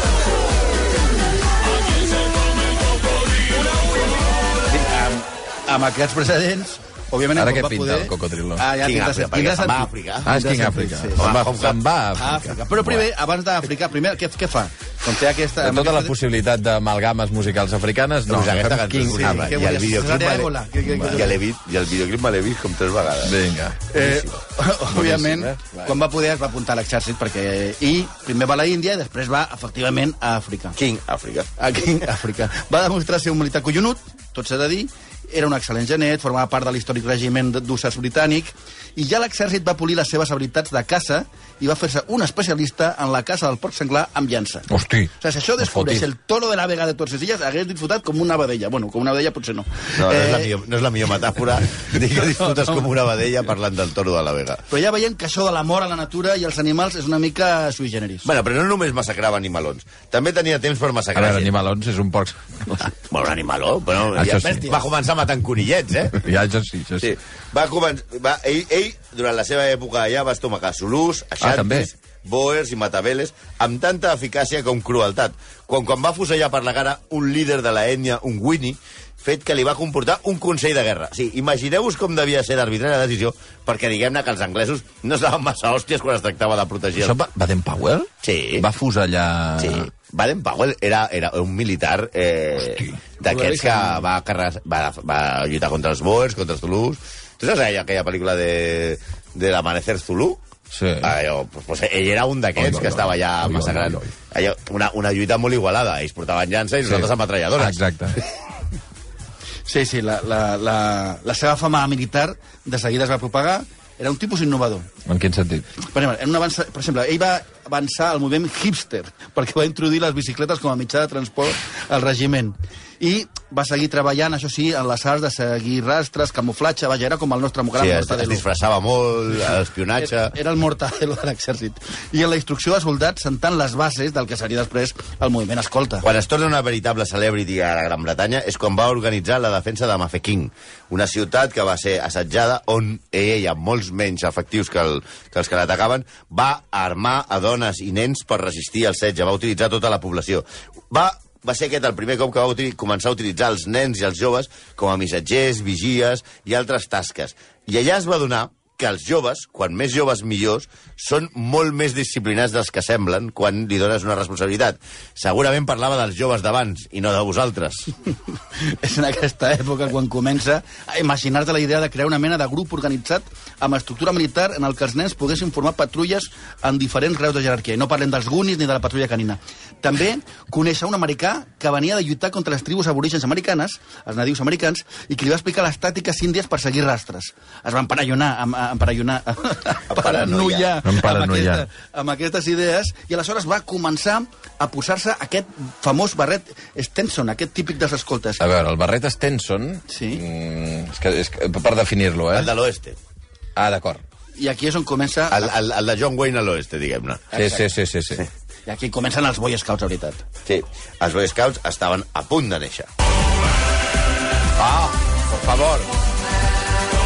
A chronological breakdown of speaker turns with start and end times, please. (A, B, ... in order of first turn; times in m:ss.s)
0:04.7-0:11.2 A
0:07.4-0:08.6 B
0:08.8-0:10.3 C
0:10.2-0:13.0 B
0:11.2-0:11.8 C
0:12.2-0:16.2 A
0:15.6-0:19.6 B
0:18.3-0:23.4 C
0:19.1-0:21.4 A
0:20.9-0:21.2 B
0:23.2-0:23.9 B
0:23.9-0:30.8 A
0:24.0-0:24.3 C
0:24.9-0:25.9 B
0:30.8-0:31.5 C
0:31.6-0:50.5 A
0:44.7-0:45.1 B
0:45.6-0:46.0 B
0:50.0-0:54.6 C
0:54.7-0:58.3 A
0:58.2-1:01.5 C
1:01.1-1:02.9 B
1:03.0-1:06.2 C
1:04.1-1:04.6 B
1:04.3-1:04.8 A
1:06.2-1:07.1 B
1:07.0-1:27.2 C
1:11.4-1:11.9 B
1:27.0-1:29.9 B
1:28.2-1:28.6 C
1:29.6-1:40.4 C
1:40.7-1:41.1 B
1:41.0-1:47.8 C
1:42.6-1:44.1 B
1:46.9-1:48.2 B
1:49.7-1:54.9 A
1:55.1-1:55.6 B
1:55.8-2:08.4 A
2:07.8-2:10.3 C
2:10.0-2:16.1 A
2:16.0-2:47.9 C
2:48.6-3:18.4 A
3:09.9-3:10.7 C
3:10.8-3:11.6 B
3:18.4-3:22.5 B
3:19.9-3:20.2 A
3:22.3-3:23.0 C
3:23.6-3:24.0 B
3:24.4-3:25.5 A
3:25.3-3:27.4 C
3:27.3-3:27.6 A
3:27.3-3:28.2 B
3:28.7-3:30.2 A
3:30.4-3:32.9 C
3:34.6-3:35.9 B